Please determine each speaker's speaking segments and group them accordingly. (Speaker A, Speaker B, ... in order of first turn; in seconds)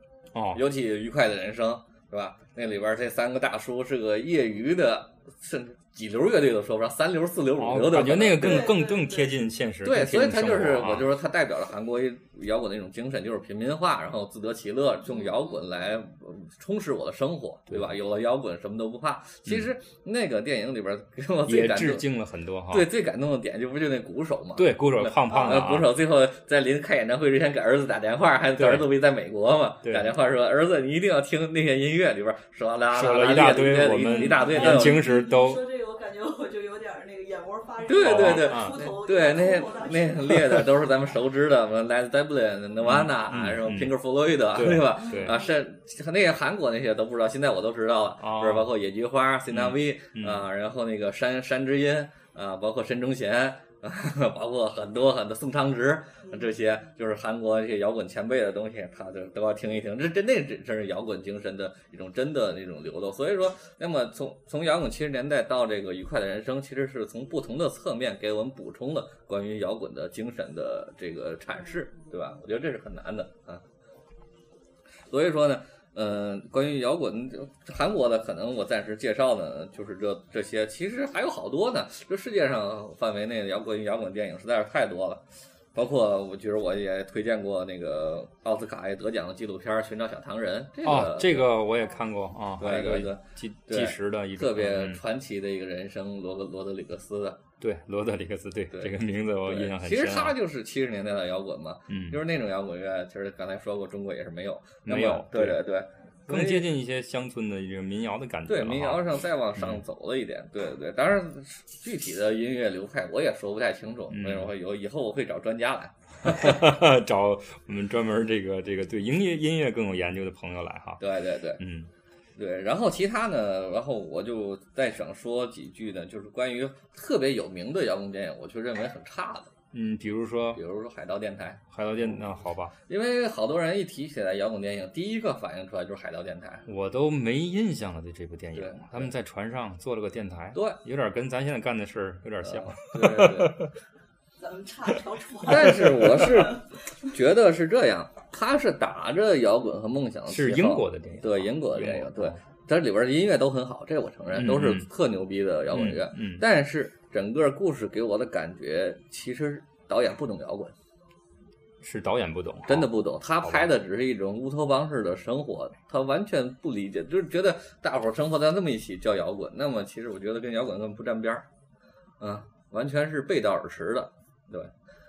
Speaker A: 0.3-0.6, 7.6-11.1, 17.7-17.9, 19.5-19.7, 21.5-22.9, 24.6-25.9, 28.6-28.9, 29.9-30.1, 32.9-35.6, 38.0-38.8, 42.8-43.9, 44.5-45.4, 48.2-48.7, 49.5-50.5, 90.8-95.0, 97.6-100.3, 101.9-102.2, 104.9-105.6, 106.3-109.8, 114.1-114.5, 116.2-121.0, 121.6-121.9, 129.7-130.6, 131.7-132.8, 136.7-143.7, 150.3-152.4, 154.3-154.9, 155.7-156.4, 161.8-162.9, 163.4-163.7
Speaker B: 0.5-8.7, 9.8-22.1, 22.7-35.1, 37.9-73.6, 75.1-91.5, 92.6-97.4, 99.5-106.7, 108.5-116.6, 121.0-121.6, 122.4-129.5, 130.6-132.2, 132.9-136.7, 138.6-139.1, 142.4-143.6, 145.5-160.7, 162.7-171.4, 172.2-174.7
Speaker C: 8.4-9.3, 15.1-15.6, 34.0-40.6, 45.0-45.5, 56.2-56.5, 71.6-72.1, 144.4-146.6